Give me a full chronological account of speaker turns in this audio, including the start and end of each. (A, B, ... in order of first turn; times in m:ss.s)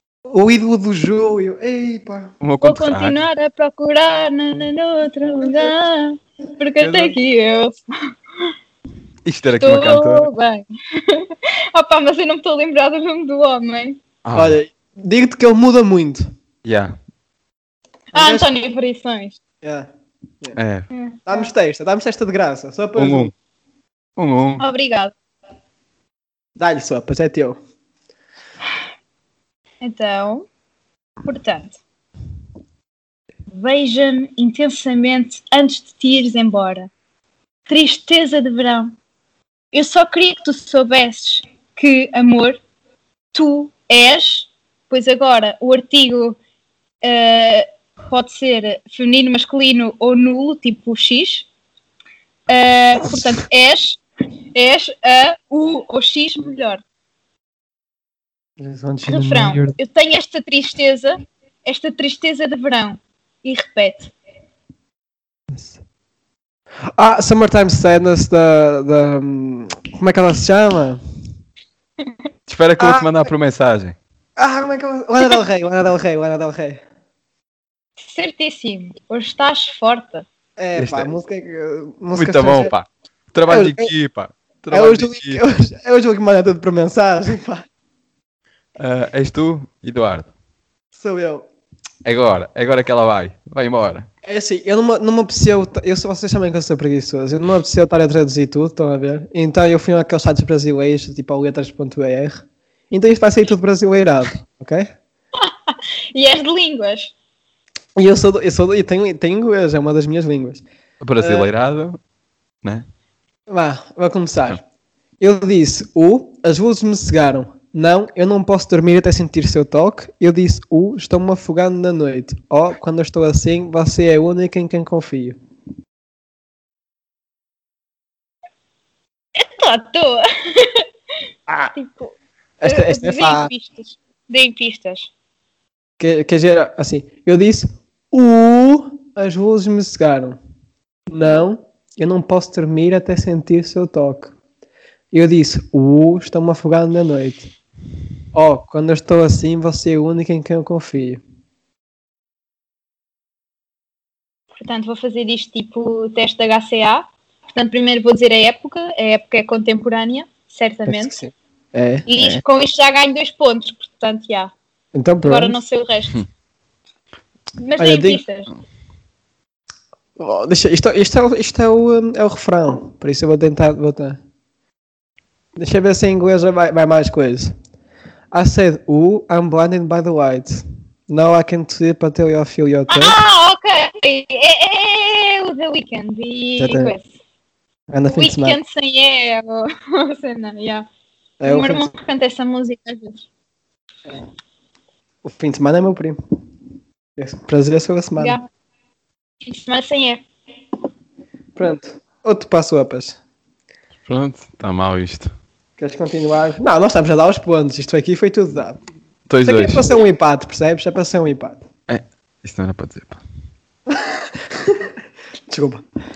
0:00.3-0:02.3 A
0:02.4-0:03.2 B
0:02.6-0:07.8 C
0:06.8-0:07.1 A
0:09.2-0:10.3 B
0:09.6-0:14.0 C
0:14.2-0:14.6 B
0:14.3-0:16.2 A
0:16.6-0:16.9 B
0:18.1-0:18.5 A
0:18.1-0:19.4 C
0:19.6-0:19.9 A
0:20.6-0:20.9 B
0:20.9-0:21.5 C
0:21.3-0:23.3 A
0:23.0-0:23.3 B
0:24.2-0:24.6 B
0:24.6-0:25.1 C
0:26.6-0:27.6 A
0:29.8-0:30.5 C
0:31.2-0:31.8 C
0:33.5-0:36.9 C
0:37.7-0:38.9 C
0:39.7-0:42.6 C
0:43.3-0:46.4 C
0:47.0-0:51.5 C
0:52.5-0:54.0 C
0:54.5-0:56.8 C
0:58.6-0:59.8 A
0:59.1-1:04.1 C
1:05.5-1:05.8 A
1:07.0-1:11.0 A
1:12.5-1:14.0 B
1:12.8-1:13.3 A
1:14.4-1:16.8 A
1:18.0-1:20.2 C
1:20.6-1:22.7 A
1:20.8-1:21.1 B
1:22.1-1:25.4 B
1:23.5-1:23.9 A
1:24.7-1:27.6 A
1:28.8-1:30.3 B
1:30.9-1:31.4 A
1:32.0-1:34.1 B
1:34.2-1:44.9 A
1:45.4-1:47.1 C
1:48.0-1:50.6 A
1:51.0-1:52.0 B
1:51.2-1:51.5 A
1:53.5-1:54.6 A
1:55.2-2:05.4 A
2:09.4-2:10.8 C
2:11.7-2:15.1 C
2:12.6-2:13.5 A
2:16.0-2:20.4 A
2:21.1-2:24.3 A
2:25.1-2:27.5 A
2:28.3-2:31.2 A
2:34.5-2:41.2 C
2:40.9-2:42.4 A
2:42.1-2:44.5 C
2:44.9-2:45.6 A
2:45.2-2:46.2 C
2:47.6-2:48.5 C
2:47.8-2:48.2 A
2:50.2-2:54.2 A
2:55.6-2:57.5 A
2:58.3-3:03.2 A
3:02.9-3:07.1 C
3:06.6-3:06.9 A
3:07.9-3:08.6 A
3:08.1-3:10.9 C
3:11.4-3:11.9 A
3:11.4-3:13.2 C
3:15.2-3:16.2 A
3:17.2-3:18.4 A
3:18.2-3:18.4 C
3:19.4-3:20.2 C
3:21.6-3:23.2 A
3:24.0-3:25.3 B
3:25.8-3:28.8 A
3:29.3-3:29.9 B
3:29.4-3:31.6 A
3:31.9-3:33.2 B
3:33.9-3:34.9 A
3:35.5-3:35.8 A